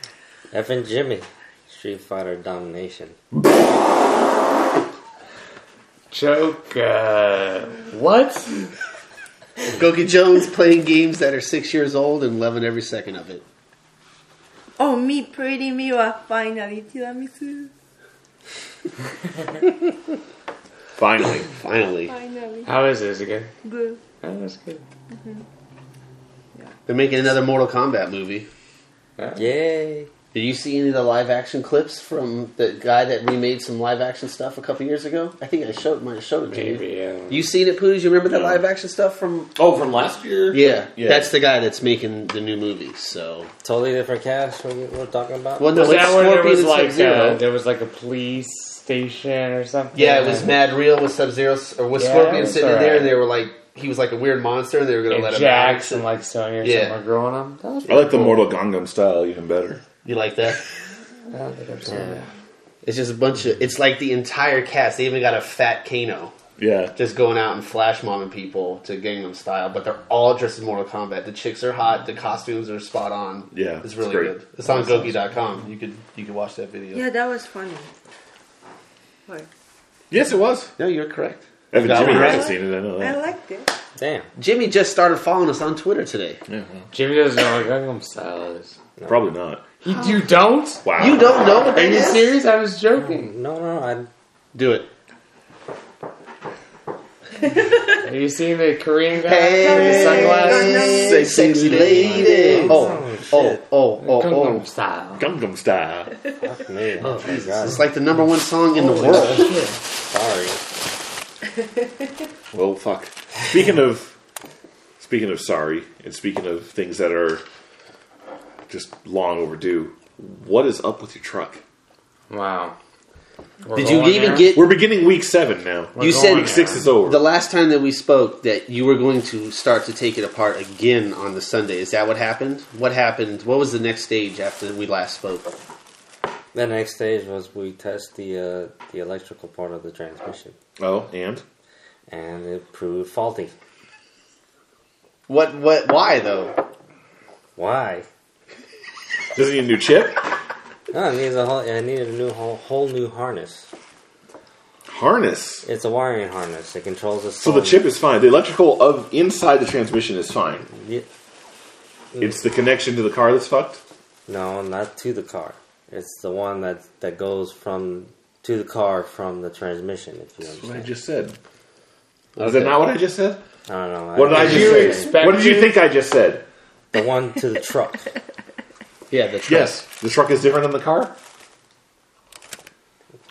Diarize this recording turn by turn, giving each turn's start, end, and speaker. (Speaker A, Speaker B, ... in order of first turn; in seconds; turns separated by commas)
Speaker A: 0.5-3.2, Speaker B: 6.1-8.7, Speaker C: 9.7-13.4, Speaker D: 14.8-17.7, Speaker E: 21.0-21.5, Speaker C: 21.5-22.1, Speaker D: 22.1-22.7, Speaker B: 22.7-23.5, Speaker D: 23.6-24.0, Speaker B: 24.2-24.8, Speaker D: 25.1-25.4, Speaker C: 26.9-28.5, Speaker B: 29.2-29.5, Speaker A: 29.4-30.1, Speaker C: 30.3-39.5, Speaker B: 36.5-37.5, Speaker E: 38.2-38.6, Speaker E: 39.6-41.3, Speaker C: 40.5-43.5, Speaker A: 43.6-46.1, Speaker C: 45.6-47.4, Speaker B: 45.7-50.6, Speaker C: 49.9-56.0, Speaker B: 52.0-53.2, Speaker B: 55.1-58.4, Speaker C: 56.6-57.0, Speaker E: 57.9-59.8, Speaker C: 58.0-58.3, Speaker C: 60.0-60.6, Speaker B: 61.3-62.3, Speaker C: 61.9-62.2, Speaker C: 62.8-66.3, Speaker E: 66.6-66.9, Speaker C: 67.0-77.1, Speaker E: 73.5-75.2, Speaker D: 76.9-77.9, Speaker E: 80.1-80.7, Speaker C: 80.8-82.5, Speaker E: 81.7-83.2, Speaker D: 81.8-83.7, Speaker A: 84.0-84.3, Speaker C: 84.4-86.4, Speaker E: 86.5-86.9, Speaker B: 86.9-88.8, Speaker E: 89.0-89.7, Speaker B: 89.8-93.3, Speaker D: 89.9-90.3, Speaker E: 90.8-91.3, Speaker C: 90.9-92.4, Speaker A: 93.0-94.1, Speaker C: 94.5-94.9, Speaker D: 97.5-98.0, Speaker B: 98.0-101.1, Speaker C: 99.2-104.6, Speaker D: 99.6-102.9, Speaker E: 100.9-102.6, Speaker B: 102.3-103.0, Speaker A: 102.5-103.6, Speaker B: 104.0-105.3, Speaker E: 105.2-106.1, Speaker A: 106.4-107.9, Speaker B: 107.0-107.9, Speaker C: 107.3-109.6, Speaker B: 108.8-109.8, Speaker A: 110.1-110.6, Speaker E: 112.5-114.2, Speaker E: 115.0-117.4, Speaker E: 118.7-121.6, Speaker B: 122.3-122.8, Speaker B: 123.7-124.5, Speaker C: 123.7-124.8, Speaker E: 124.5-127.2, Speaker B: 126.0-126.9, Speaker C: 126.0-135.6, Speaker A: 136.5-140.6, Speaker E: 140.8-141.4, Speaker A: 142.1-143.6, Speaker C: 145.3-146.6, Speaker A: 147.6-148.1, Speaker E: 149.4-150.3, Speaker A: 150.9-153.7, Speaker E: 154.9-155.7, Speaker A: 155.6-157.9, Speaker E: 157.4-160.7, Speaker A: 160.7-161.1, Speaker E: 162.2-163.8, Speaker A: 164.3-170.9, Speaker E: 170.5-171.4, Speaker C: 172.4-172.8, Speaker E: 172.4-173.4, Speaker A: 173.7-175.2, Speaker E: 174.2-176.5, Speaker C: 174.3-175.0, Speaker B: 174.3-175.8, Speaker A: 176.9-178.1, Speaker C: 179.1-179.8, Speaker E: 179.5-181.2